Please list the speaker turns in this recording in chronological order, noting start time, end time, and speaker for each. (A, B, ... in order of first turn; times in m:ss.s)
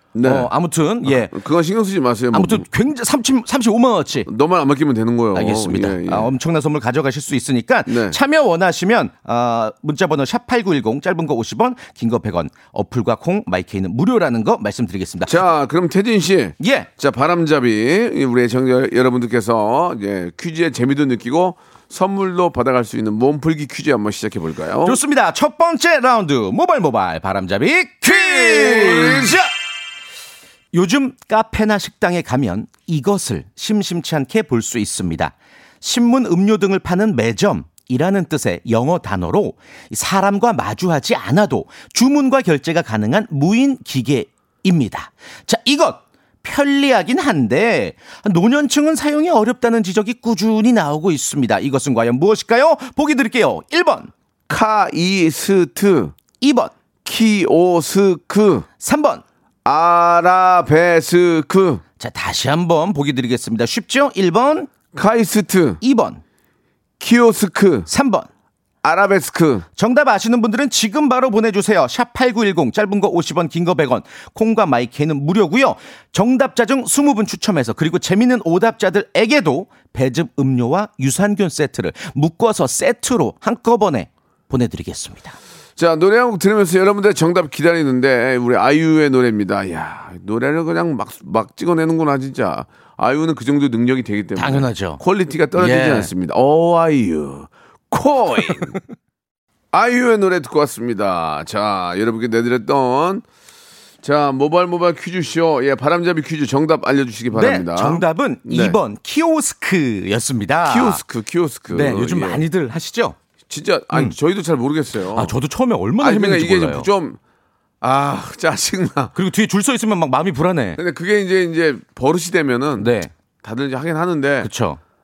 0:00.1-0:00.5 A
0:00.2-0:01.3 B
0:01.0-0:02.6 A
0:02.3-0:04.3 B
0:04.2-0:06.3 A
0:05.3-0:15.4 B
0:07.9-0:08.2 A
0:15.2-0:25.0 A
0:16.6-0:16.9 B
0:24.8-0:29.5 B
0:28.0-0:29.4 A
0:30.7-0:54.1 B
0:54.5-0:56.1 A
0:56.4-0:56.7 B
0:57.0-0:58.6 A
0:58.8-0:59.2 B
0:59.6-1:01.8 A
1:02.0-1:04.7 B
1:04.9-1:05.8 A
1:05.8-1:06.2 B
1:07.0-1:07.9 A
1:07.9-1:08.3 B
1:08.8-1:09.7 A
1:09.8-1:25.4 B
1:25.8-1:38.8 A
1:34.4-1:35.0 B
1:35.6-1:36.1 B
1:39.7-1:43.2 A
1:44.0-1:48.8 A
1:47.3-1:51.0 B
1:50.6-1:52.4 A
1:51.7-1:53.2 B
1:53.5-1:55.3 A
1:55.1-1:56.9 B
1:56.0-1:57.2 A
1:57.8-1:59.1 A
1:59.1-2:00.8 B
2:00.8-2:02.9 A
2:02.8-2:03.1 B
2:03.4-2:04.5 A
2:04.4-2:04.8 B